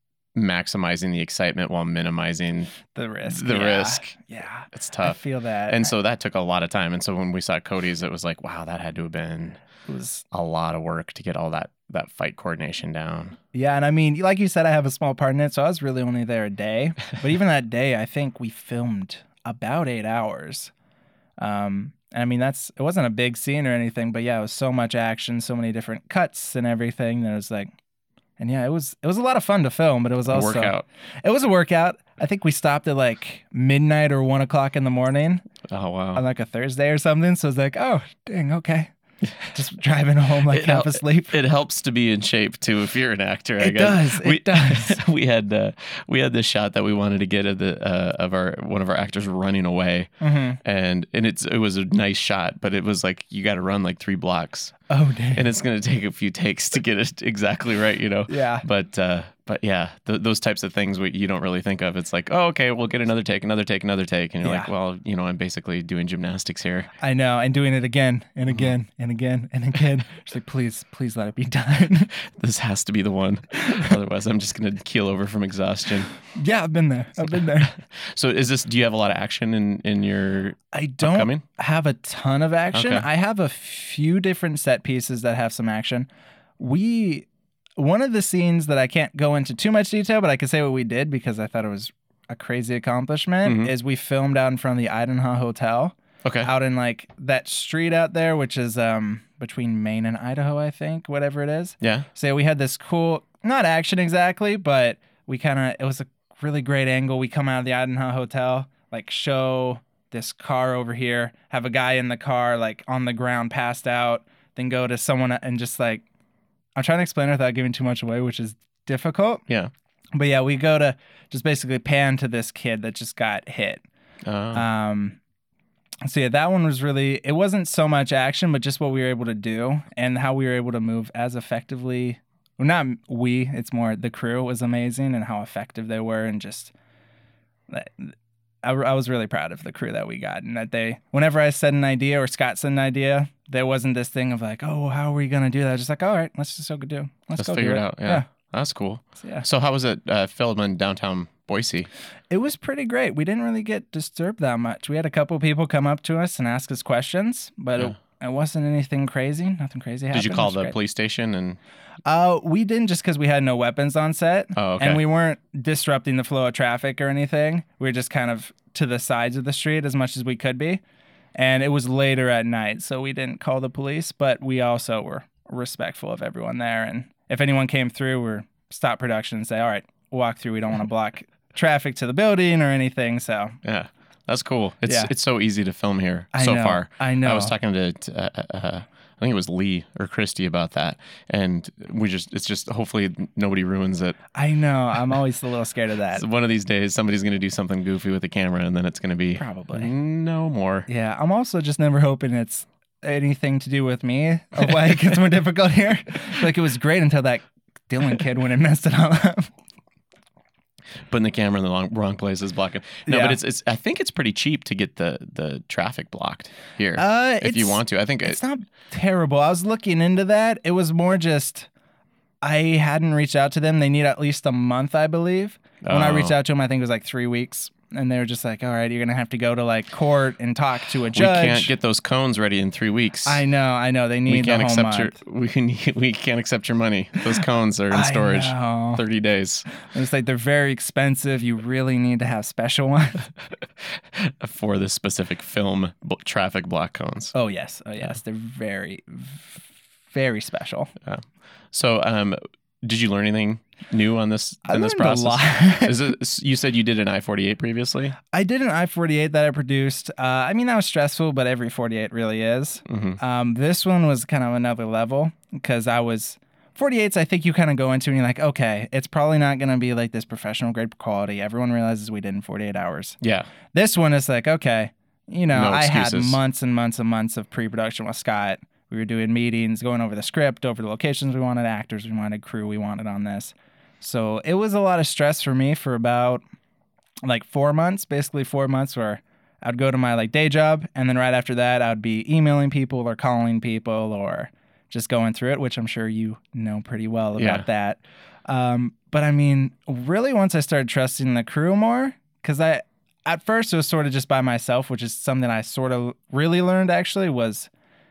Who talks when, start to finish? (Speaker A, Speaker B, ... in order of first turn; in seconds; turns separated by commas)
Speaker A: 0.3-4.2, Speaker B: 2.9-5.9, Speaker A: 4.7-9.6, Speaker B: 9.9-10.2, Speaker A: 10.3-13.4, Speaker B: 13.5-20.7, Speaker B: 21.4-27.7, Speaker B: 28.4-35.4, Speaker A: 30.3-30.9, Speaker A: 35.7-36.2, Speaker B: 36.1-38.9, Speaker B: 39.5-41.4, Speaker A: 40.5-50.1, Speaker B: 43.6-45.0, Speaker B: 50.2-50.6, Speaker A: 50.6-54.8, Speaker B: 54.9-55.5, Speaker A: 55.3-66.9, Speaker B: 58.3-58.6, Speaker B: 64.4-64.7, Speaker B: 67.0-72.1, Speaker A: 72.2-76.2, Speaker B: 76.3-77.8, Speaker A: 77.6-81.4, Speaker B: 80.7-86.1, Speaker A: 82.7-83.1, Speaker B: 86.6-116.0, Speaker A: 93.5-93.7, Speaker A: 96.2-96.5, Speaker A: 101.8-102.1, Speaker B: 116.8-119.4, Speaker B: 120.1-123.8, Speaker A: 124.3-124.7, Speaker B: 124.5-125.2, Speaker B: 126.0-136.7, Speaker B: 137.7-148.2, Speaker A: 147.4-151.9, Speaker B: 149.2-149.5, Speaker B: 152.3-160.8, Speaker A: 160.1-161.6, Speaker B: 162.1-170.8, Speaker A: 164.6-165.0, Speaker B: 171.3-183.6, Speaker A: 183.6-194.2, Speaker B: 184.9-185.1, Speaker B: 186.3-187.6, Speaker B: 194.3-196.2, Speaker A: 196.1-200.9, Speaker B: 199.4-199.9, Speaker B: 200.9-209.5, Speaker A: 211.1-218.4, Speaker B: 213.1-213.4, Speaker B: 217.0-221.7, Speaker B: 222.4-231.7, Speaker A: 225.8-226.4, Speaker A: 231.1-233.4, Speaker B: 233.2-235.2, Speaker A: 234.3-239.7, Speaker B: 237.9-239.0, Speaker B: 239.8-243.3, Speaker A: 243.9-247.3, Speaker B: 247.3-250.9, Speaker A: 251.1-258.2, Speaker B: 254.7-256.1, Speaker B: 258.3-273.2, Speaker A: 262.9-263.2, Speaker A: 273.2-273.5, Speaker B: 273.7-286.4, Speaker A: 275.5-276.4, Speaker B: 287.2-307.7, Speaker A: 297.4-297.7